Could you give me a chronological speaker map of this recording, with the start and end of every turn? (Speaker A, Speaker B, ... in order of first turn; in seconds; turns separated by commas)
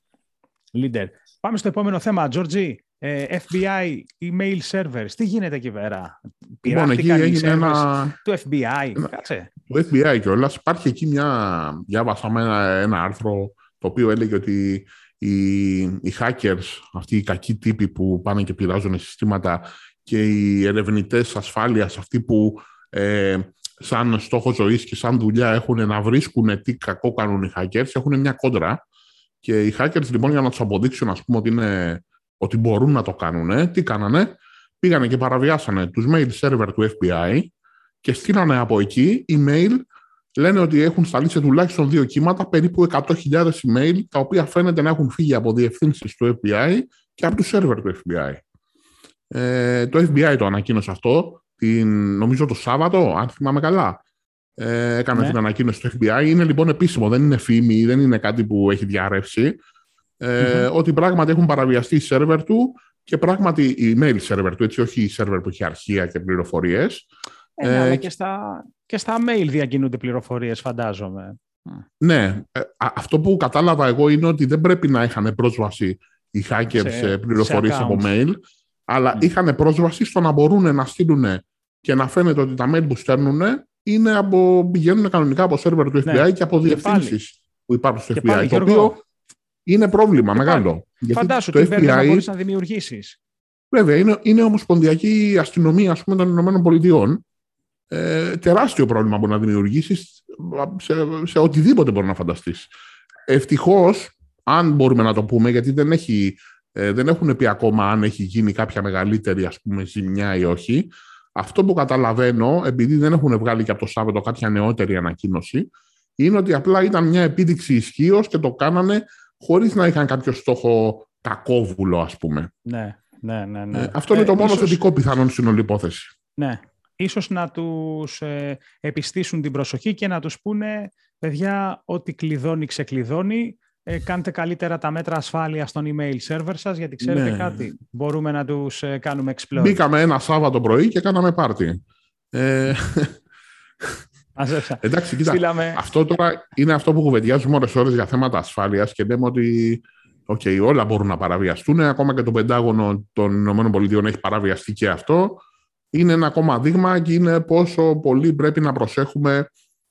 Speaker A: 0.7-9.5, Speaker B: 6.7-8.2, Speaker B: 9.6-28.8, Speaker B: 29.4-37.5, Speaker B: 38.0-39.8, Speaker B: 40.4-48.4, Speaker B: 49.3-54.0, Speaker B: 54.6-59.6, Speaker B: 60.2-67.1, Speaker A: 60.4-60.7, Speaker A: 67.6-71.8, Speaker B: 67.6-68.0, Speaker B: 72.0-89.0, Speaker A: 76.7-78.1, Speaker A: 86.0-87.2, Speaker A: 88.1-89.0, Speaker B: 89.7-92.2, Speaker A: 90.3-93.2, Speaker B: 93.7-97.2, Speaker B: 97.9-102.7, Speaker B: 103.3-122.5, Speaker A: 122.6-124.8, Speaker B: 123.7-126.1, Speaker A: 126.4-139.8, Speaker B: 137.0-137.7, Speaker B: 139.5-141.8, Speaker B: 142.3-143.2, Speaker A: 144.3-145.8, Speaker B: 144.8-159.5